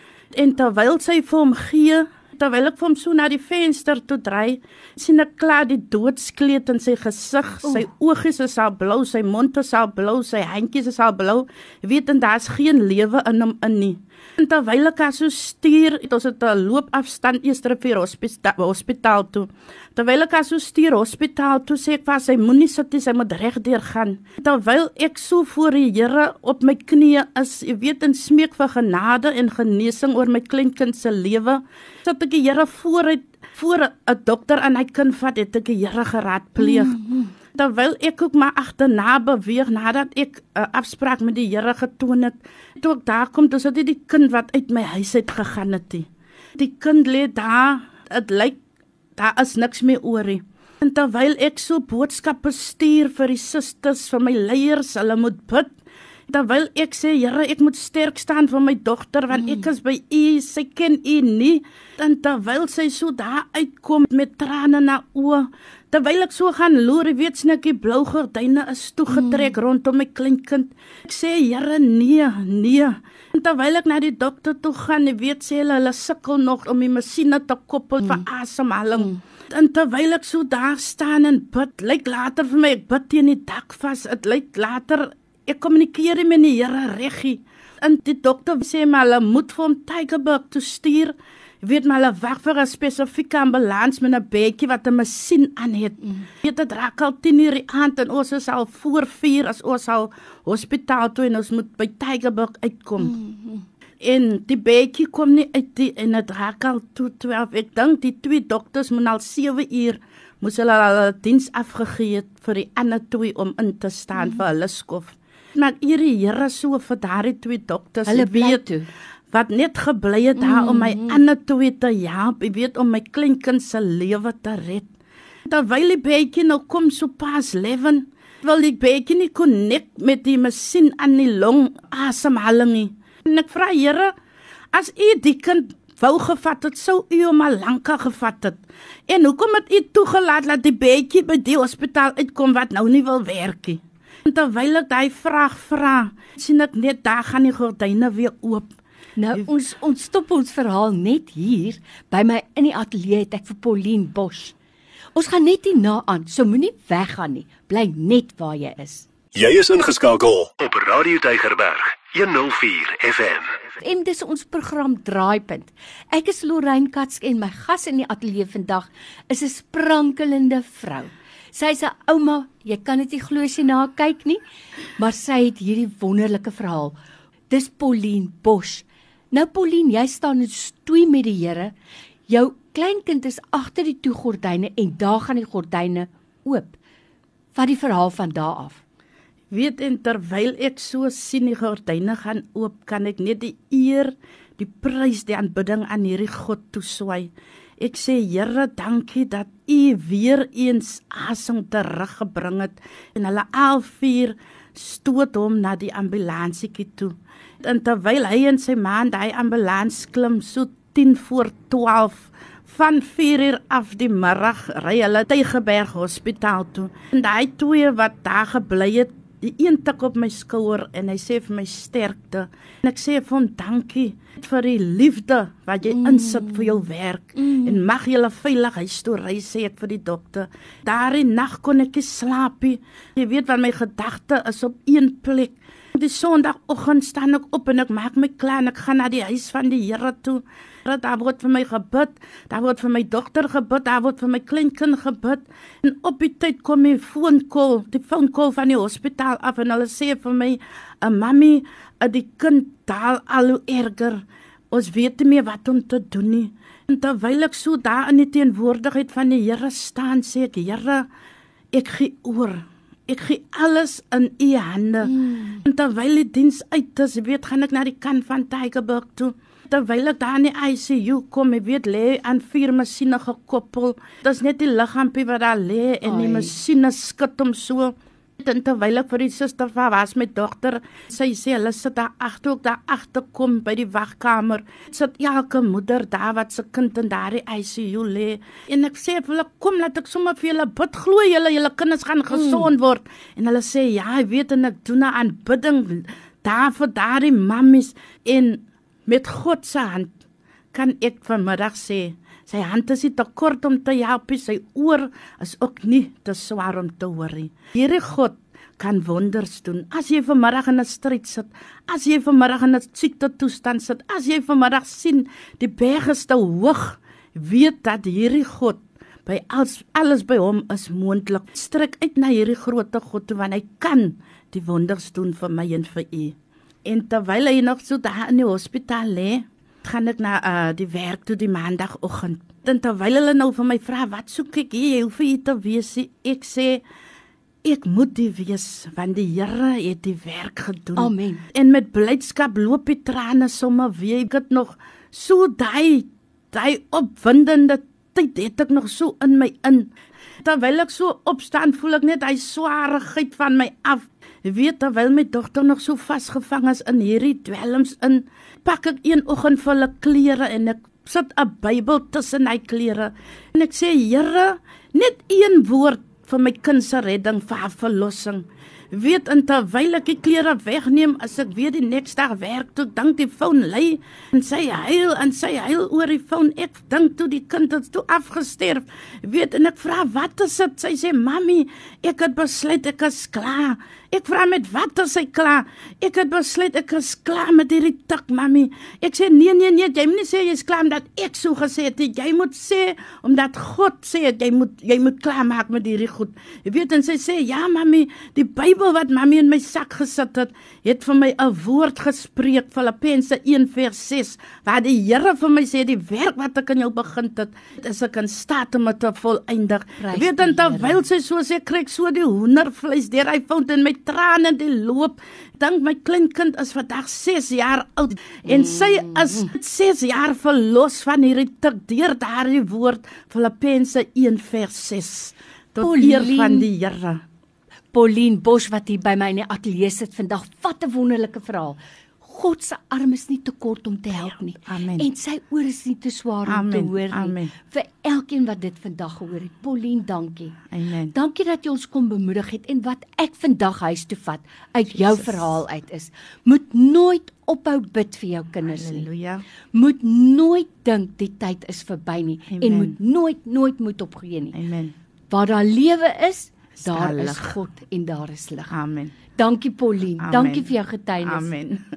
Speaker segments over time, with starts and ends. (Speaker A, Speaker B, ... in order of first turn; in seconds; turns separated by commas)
Speaker A: 0.3-37.0, Speaker B: 36.6-37.3, Speaker A: 37.5-48.6, Speaker A: 49.1-55.7, Speaker A: 56.3-103.2, Speaker B: 59.3-59.6, Speaker B: 69.1-69.5, Speaker B: 103.0-103.6, Speaker A: 104.0-118.6, Speaker B: 118.0-118.9, Speaker A: 119.3-124.9, Speaker B: 120.4-121.2, Speaker A: 125.5-134.1, Speaker A: 134.7-148.7, Speaker B: 149.2-154.5, Speaker B: 155.1-159.1, Speaker C: 159.3-163.4, Speaker B: 163.8-174.4, Speaker B: 175.0-176.9, Speaker B: 177.5-181.7, Speaker B: 182.3-186.8, Speaker B: 187.5-188.8, Speaker A: 189.5-261.1, Speaker B: 225.9-226.8, Speaker B: 227.4-227.8, Speaker A: 261.7-265.1, Speaker B: 265.0-265.6, Speaker A: 265.6-300.1, Speaker B: 276.0-276.5, Speaker B: 292.3-292.7, Speaker A: 300.7-336.8, Speaker A: 337.6-349.9, Speaker B: 340.9-341.4, Speaker A: 350.4-427.2, Speaker B: 410.0-411.0, Speaker B: 418.4-419.5, Speaker B: 425.8-426.7, Speaker B: 427.9-440.6, Speaker A: 434.6-435.1, Speaker A: 436.4-437.5, Speaker A: 440.7-441.1, Speaker B: 441.1-449.1, Speaker A: 445.0-445.4, Speaker A: 448.6-449.4, Speaker B: 449.7-454.5, Speaker A: 452.5-452.9, Speaker A: 454.5-454.9, Speaker B: 455.3-458.7, Speaker A: 456.8-457.6, Speaker A: 458.7-459.2, Speaker B: 459.4-461.5, Speaker A: 460.2-461.8